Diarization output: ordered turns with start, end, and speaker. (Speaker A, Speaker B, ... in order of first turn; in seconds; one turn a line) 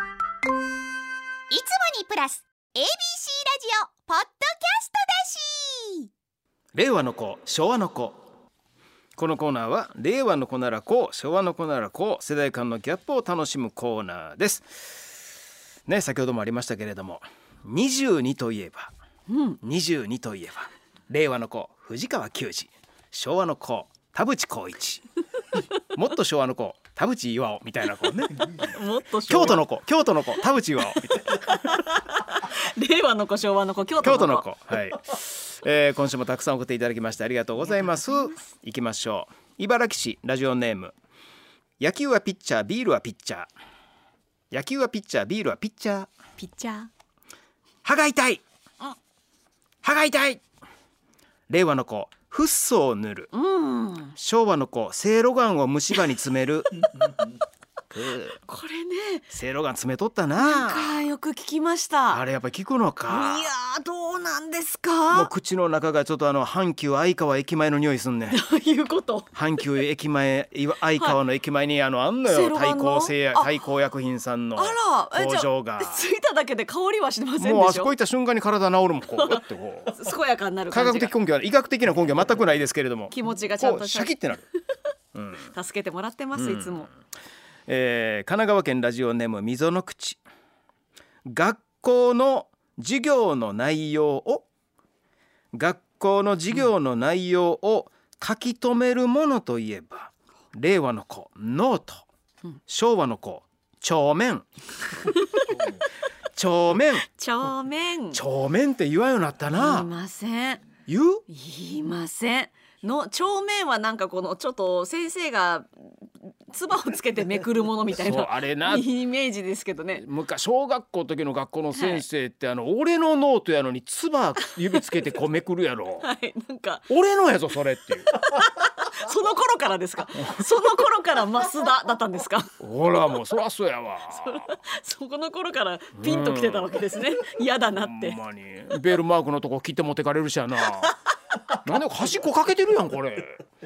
Speaker A: 1.5-6.1
Speaker B: 6.8-8.2
Speaker B: 9.2-15.1
Speaker B: 15.8-18.9
Speaker C: 19.3-19.6
Speaker B: 19.6-25.1
Speaker B: 25.9-28.7
Speaker C: 28.5-29.6
Speaker B: 29.3-31.6
Speaker C: 31.1-34.5
Speaker B: 34.0-40.9
Speaker C: 37.7-38.4
Speaker B: 41.8-43.5
Speaker B: 44.5-46.1
Speaker C: 46.4-46.9
Speaker B: 47.8-48.4
Speaker B: 49.8-50.4
Speaker B: 51.5-53.3
Speaker C: 53.3-54.2
Speaker B: 54.2-56.8
Speaker B: 57.9-58.4
Speaker C: 58.4-59.2
Speaker B: 59.3-61.0
Speaker C: 60.4-62.2
Speaker B: 62.1-63.5
Speaker C: 63.1-65.3
Speaker B: 65.1-68.4
Speaker C: 68.3-69.3
Speaker B: 69.3-76.1
Speaker C: 72.2-73.5
Speaker C: 74.6-77.9
Speaker B: 77.4-80.0
Speaker C: 79.1-81.1
Speaker B: 80.7-84.5
Speaker C: 83.1-84.1
Speaker B: 85.1-85.5
Speaker C: 85.5-86.9
Speaker B: 86.4-86.9
Speaker B: 87.7-90.2
Speaker B: 91.3-94.5
Speaker B: 95.5-102.0
Speaker B: 102.7-104.5
Speaker C: 105.0-105.7
Speaker B: 106.3-107.0
Speaker C: 107.1-108.2
Speaker B: 108.1-109.9
Speaker C: 109.5-110.6
Speaker B: 110.9-111.2
Speaker C: 111.3-120.0
Speaker B: 118.0-118.9
Speaker B: 120.0-126.1
Speaker C: 121.7-122.0
Speaker C: 126.0-126.9
Speaker B: 126.9-128.2
Speaker C: 128.2-132.5
Speaker B: 130.2-130.5
Speaker B: 132.6-134.5
Speaker C: 134.1-138.2
Speaker B: 136.0-136.9
Speaker B: 137.7-140.9
Speaker B: 141.5-143.4